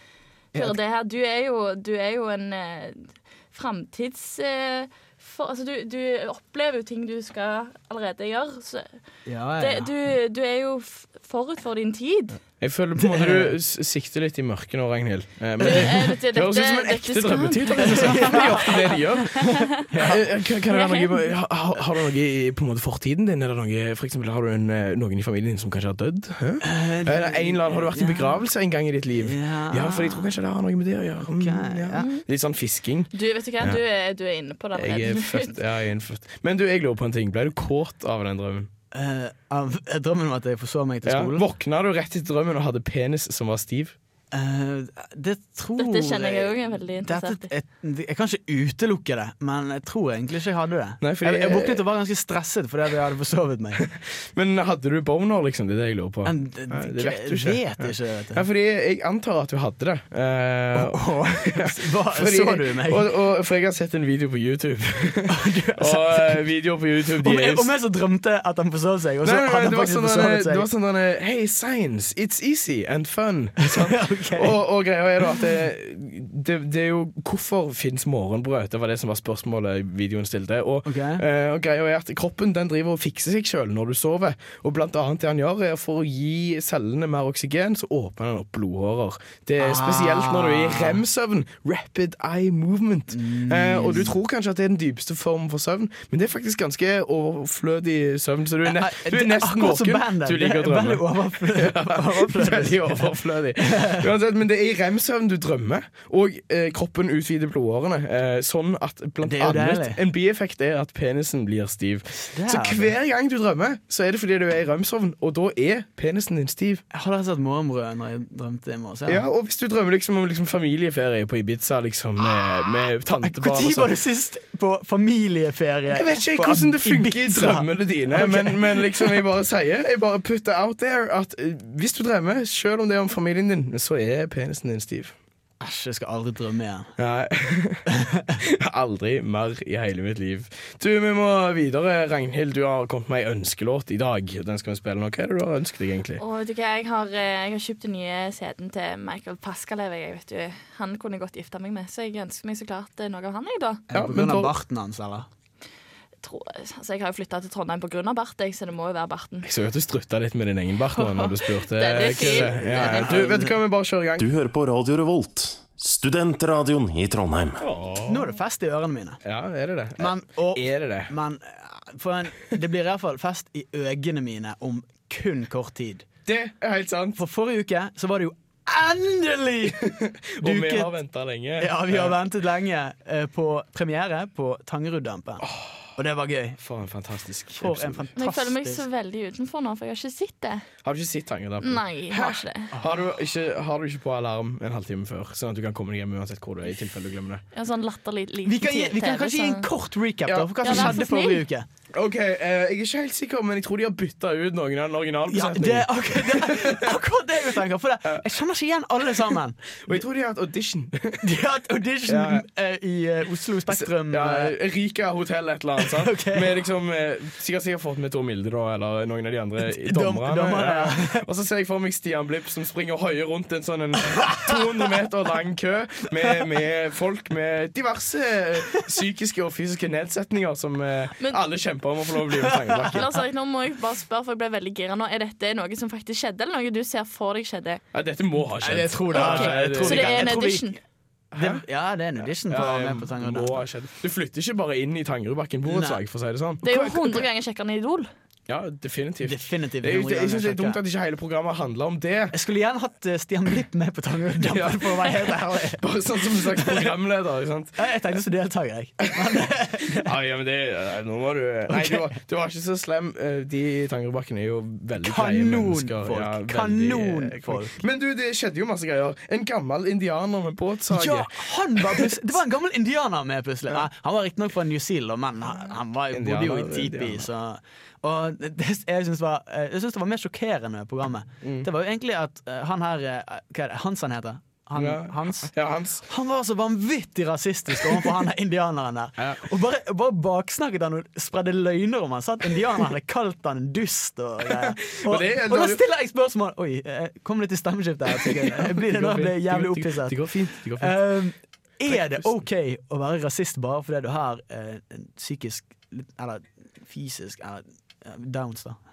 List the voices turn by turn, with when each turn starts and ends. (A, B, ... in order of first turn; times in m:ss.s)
0:00.6-0:08.9 A
0:09.3-0:09.9 B
0:09.6-0:12.4 A
0:12.6-0:33.8 C
0:13.0-0:13.5 B
0:15.6-0:16.0 B
0:15.6-0:19.5 A
0:17.9-0:20.2 B
0:20.7-0:21.3 A
0:26.6-0:28.4 B
0:29.2-0:30.3 B
0:31.3-0:32.1 B
0:33.1-0:35.6 A
0:34.7-0:38.7 C
0:38.9-0:41.4 B
0:41.0-0:44.0 C
0:44.3-0:53.8 B
0:45.8-0:47.5 A
0:51.0-0:51.8 C
0:53.8-1:07.7 C
0:56.2-0:58.4 B
1:00.7-1:03.1 B
1:05.3-1:06.4 B
1:07.2-1:10.6 B
1:09.2-1:56.8 C
1:13.6-1:14.6 B
1:20.9-1:21.2 B
1:29.6-1:31.0 B
1:33.1-1:34.2 B
1:38.6-1:44.1 B
1:49.2-1:50.0 B
1:52.3-1:52.9 B
1:56.9-1:59.2 B
1:59.1-2:03.9 C
2:03.2-2:09.2 B
2:05.9-2:15.2 C
2:15.6-2:16.9 B
2:17.0-2:17.8 C
2:18.0-2:18.4 B
2:18.4-2:26.2 C
2:26.2-2:33.8 A
2:33.9-2:35.3 B
2:33.9-2:34.6 C
2:36.2-2:39.5 A
2:39.4-2:44.2 C
2:40.9-2:43.4 A
2:42.0-2:43.6 B
2:44.2-2:47.6 D
2:47.6-2:48.3 C
2:48.1-2:49.2 B
2:49.2-2:51.1 C
2:50.0-2:56.0 B
2:56.3-2:57.2 C
2:57.2-2:59.9 B
2:59.9-3:02.2 C
3:00.4-3:00.9 B
3:01.6-3:05.4 B
3:05.4-3:05.9 C
3:06.0-3:06.6 B
3:06.6-3:08.1 C
3:07.6-3:08.8 B
3:08.2-3:10.6 A
3:10.8-3:17.4 C
3:11.6-3:12.7 A
3:12.7-3:13.0 B
3:17.5-3:19.7 A
3:18.4-3:21.7 B
3:20.3-3:21.0 C
3:20.6-3:21.4 A
3:21.9-3:26.9 C
3:25.3-3:30.0 B
3:29.8-3:31.2 C
3:31.2-3:34.5 B
3:32.1-3:32.4 C
3:33.7-3:53.1 C
3:35.8-3:36.6 B
3:39.6-3:41.2 B
3:52.6-3:52.9 B
3:52.9-3:57.8 A
3:57.9-4:00.3 C
3:58.6-4:00.8 B
3:59.1-4:00.8 A
4:01.3-4:01.6 C
4:01.4-4:03.6 B
4:02.5-4:07.3 C
4:05.7-4:06.0 B
4:06.6-4:08.1 A
4:08.5-4:12.4 C
4:09.2-4:10.8 B
4:12.3-4:16.9 B
4:14.4-4:17.9 C
4:17.8-4:20.1 B
4:19.2-4:19.5 C
4:20.0-4:32.2 C
4:21.7-4:22.1 B
4:25.0-4:27.8 B
4:30.9-4:45.5 B
4:36.1-4:37.3 C
4:41.4-4:41.7 C
4:44.8-4:46.0 C
4:46.1-5:00.2 B
4:47.8-4:48.2 C
4:49.2-4:49.4 C
4:54.5-4:55.8 C
4:58.1-5:01.0 C
5:00.8-5:08.8 B
5:01.9-5:02.4 C